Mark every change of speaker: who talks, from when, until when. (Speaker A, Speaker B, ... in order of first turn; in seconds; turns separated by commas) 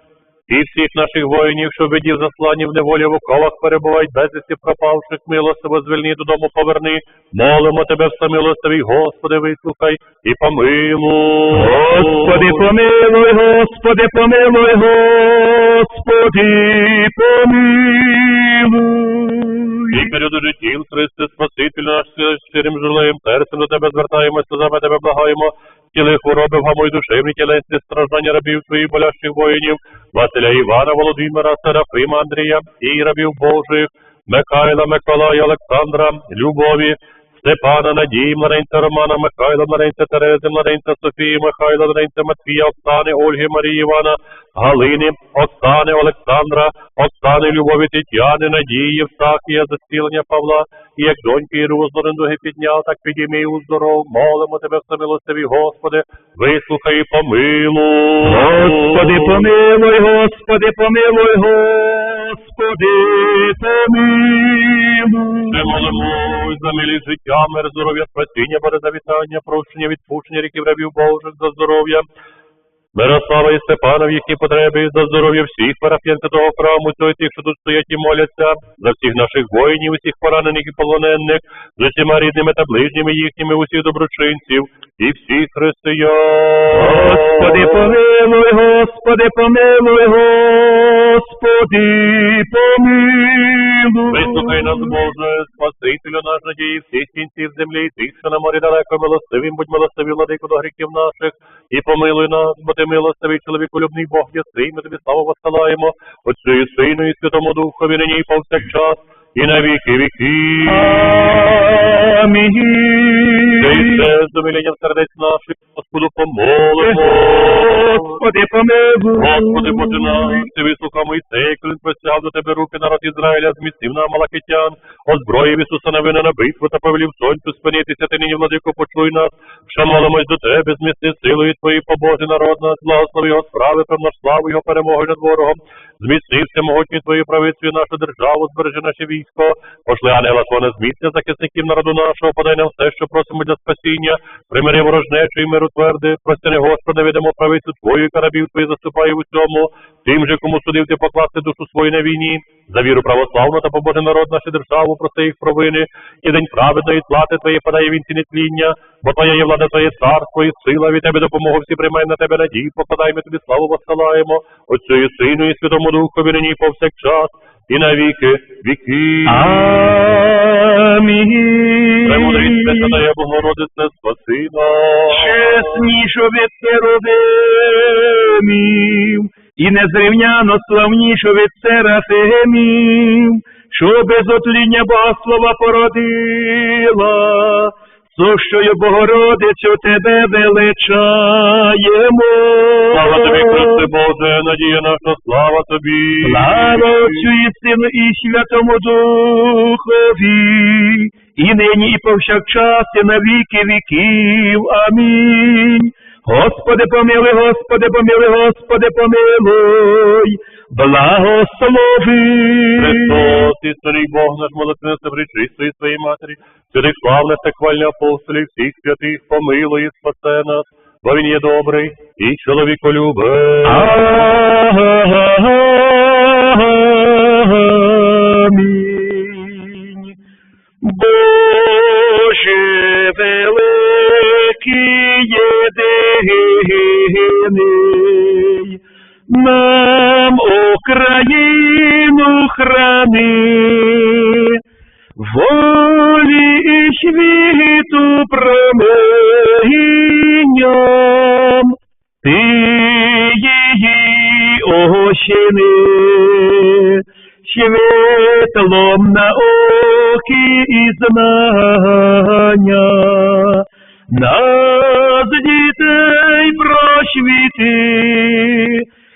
Speaker A: 0.5-12.7, Speaker B: 11.5-20.1, Speaker A: 19.9-59.4, Speaker B: 58.2-65.7, Speaker A: 65.5-72.1, Speaker A: 72.9-87.9, Speaker B: 86.7-95.0, Speaker A: 94.1-111.4, Speaker B: 110.6-114.0, Speaker A: 113.6-118.2, Speaker B: 116.8-120.5, Speaker A: 119.1-170.1, Speaker B: 169.2-173.0, Speaker A: 172.0-175.8, Speaker B: 175.1-193.8, Speaker A: 192.9-197.2, Speaker B: 196.2-213.4, Speaker A: 212.8-224.3, Speaker B: 223.6-230.1, Speaker B: 230.8-244.5, Speaker B: 245.2-268.8